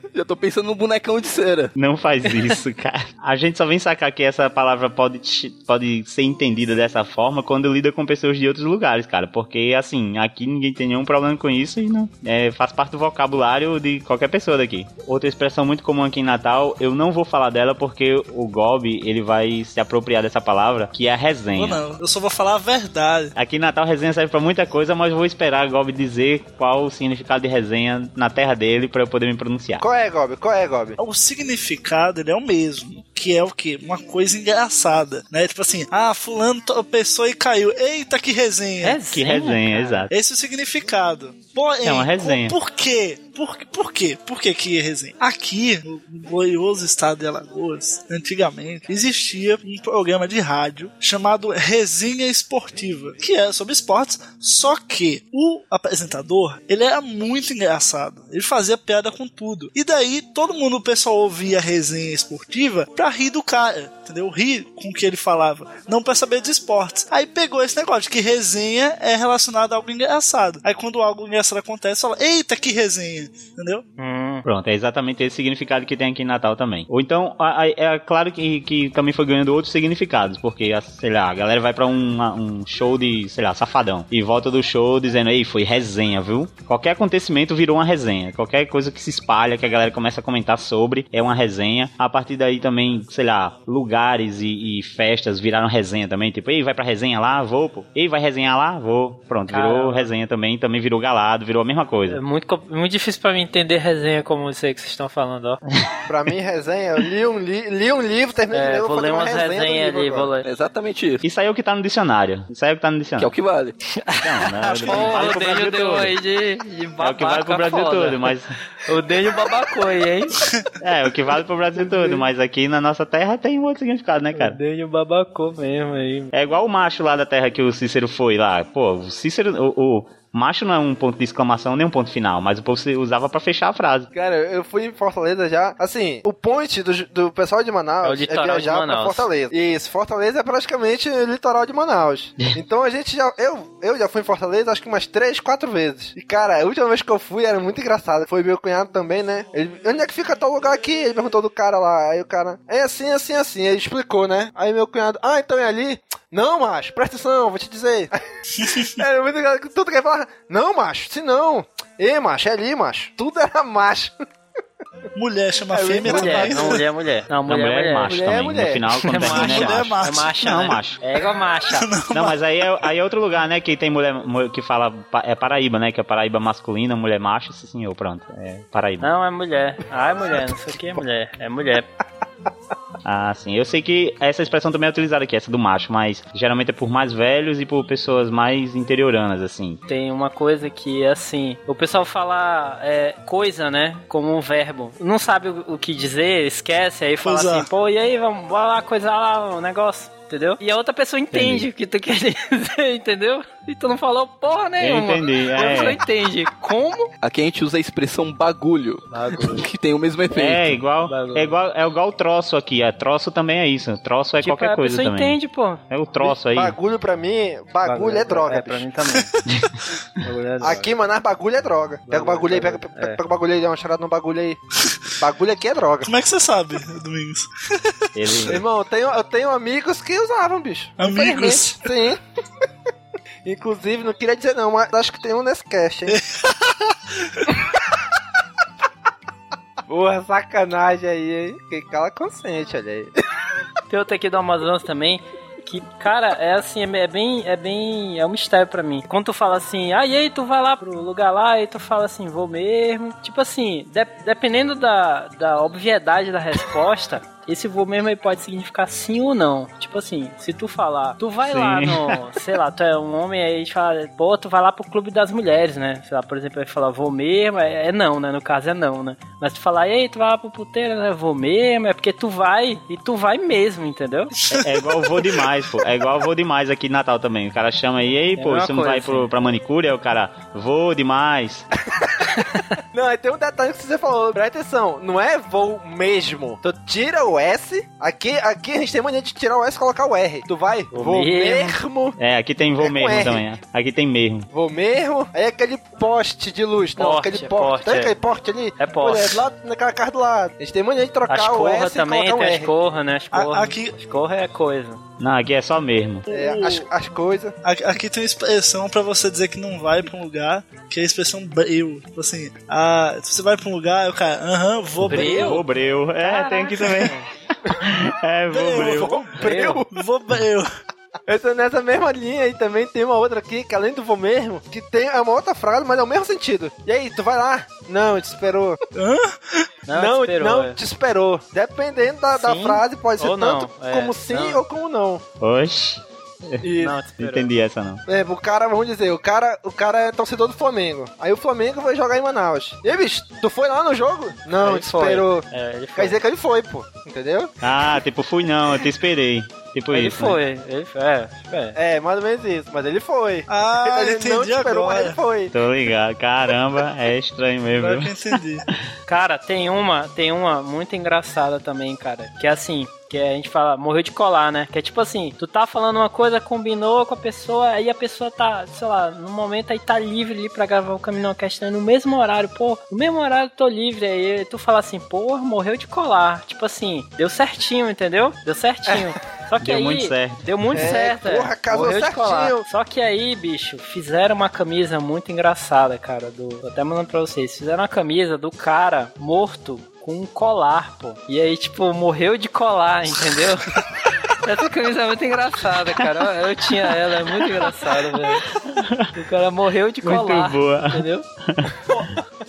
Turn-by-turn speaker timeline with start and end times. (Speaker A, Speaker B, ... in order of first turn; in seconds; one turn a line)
Speaker A: 0.1-1.7
Speaker B: 1.8-21.8
Speaker C: 21.6-23.4
Speaker B: 23.4-29.9
Speaker D: 29.8-31.0
Speaker C: 31.0-39.0
Speaker E: 38.8-40.1
Speaker B: 39.1-40.1
Speaker C: 40.1-73.8
Speaker B: 41.8-42.6
Speaker E: 74.0-74.4
Speaker B: 74.5-102.2
Speaker E: 99.5-100.1
Speaker E: 102.1-105.6
Speaker D: 106.1-110.3
Speaker E: 108.5-110.5
Speaker A: 110.4-111.2
Speaker B: 111.2-113.3
Speaker A: 113.2-113.8
Speaker B: 114.2-116.1
Speaker E: 114.8-118.2
Speaker B: 117.0-118.5
Speaker E: 118.9-120.4
Speaker B: 120.8-124.6
Speaker E: 121.8-122.2
Speaker E: 124.3-126.3
Speaker B: 126.3-134.1
Speaker D: 134.1-158.2
Speaker E: 138.0-139.3
Speaker C: 158.6-158.9
Speaker D: 158.8-164.1
Speaker C: 165.2-166.8
Speaker D: 165.7-166.8
Speaker E: 166.0-168.2
Speaker B: 167.5-171.0
Speaker D: 168.1-168.9
Speaker E: 169.1-171.9
Speaker C: 169.1-170.3
Speaker C: 171.8-172.4
Speaker B: 172.1-179.1
Speaker E: 179.0-181.9
Speaker B: 183.1-189.8
Speaker E: 189.9-207.1
Speaker C: 197.2-197.7
Speaker B: 201.3-201.7
Speaker B: 204.8-206.0
Speaker A: 207.2-210.8
Speaker E: 209.1-209.7
Speaker B: 210.3-215.4
Speaker E: 211.1-211.6
Speaker E: 214.4-215.8
Speaker B: 215.9-216.8
Speaker D: 216.2-218.9
Speaker E: 217.8-219.3
Speaker E: 220.2-220.9
Speaker D: 220.6-224.6
Speaker E: 222.1-223.2
Speaker D: 225.2-226.1
Speaker C: 226.1-228.6
Speaker B: 228.2-228.6
Speaker D: 228.5-232.2
Speaker C: 231.0-231.8
Speaker D: 233.4-236.2
Speaker C: 236.1-237.4
Speaker D: 239.9-243.1
Speaker E: 243.9-274.3
Speaker B: 261.4-262.2
Speaker C: 274.4-274.7
Speaker B: 274.5-281.7
Speaker E: 278.4-279.3
Speaker E: 282.4-282.7
Speaker D: 282.9-292.2
Speaker E: 290.9-291.8
Speaker B: 292.2-294.5
Speaker D: 292.8-293.4
Speaker D: 294.5-302.7
Speaker E: 297.0-298.1
Speaker E: 298.8-299.4
Speaker E: 301.3-305.0
Speaker C: 303.3-304.0
Speaker B: 305.2-306.3
Speaker C: 306.3-306.9
Speaker D: 306.3-307.6
Speaker C: 307.6-315.6
Speaker B: 315.0-317.1
Speaker E: 315.0-315.6
Speaker E: 316.2-317.3
Speaker B: 317.7-319.2
Speaker C: 318.5-320.7
Speaker D: 318.8-320.0
Speaker E: 319.4-319.8
Speaker D: 321.3-328.8
Speaker C: 328.9-329.7
Speaker E: 329.9-330.8
Speaker D: 329.9-335.2
Speaker E: 332.4-334.6
Speaker B: 335.4-336.7
Speaker D: 336.6-337.0
Speaker E: 336.8-337.5
Speaker B: 337.2-338.0
Speaker D: 338.1-345.4
Speaker E: 344.6-346.2
Speaker D: 346.0-347.5
Speaker B: 347.6-350.4
Speaker E: 349.9-351.8
Speaker D: 351.8-355.5
Speaker C: 353.5-355.2
Speaker B: 355.5-358.1
Speaker C: 357.8-358.7
Speaker E: 359.1-393.7
Speaker B: 379.6-380.8
Speaker D: 380.7-382.7
Speaker E: 394.4-398.5
Speaker B: 398.6-399.1
Speaker E: 399.1-401.2
Speaker B: 400.0-401.9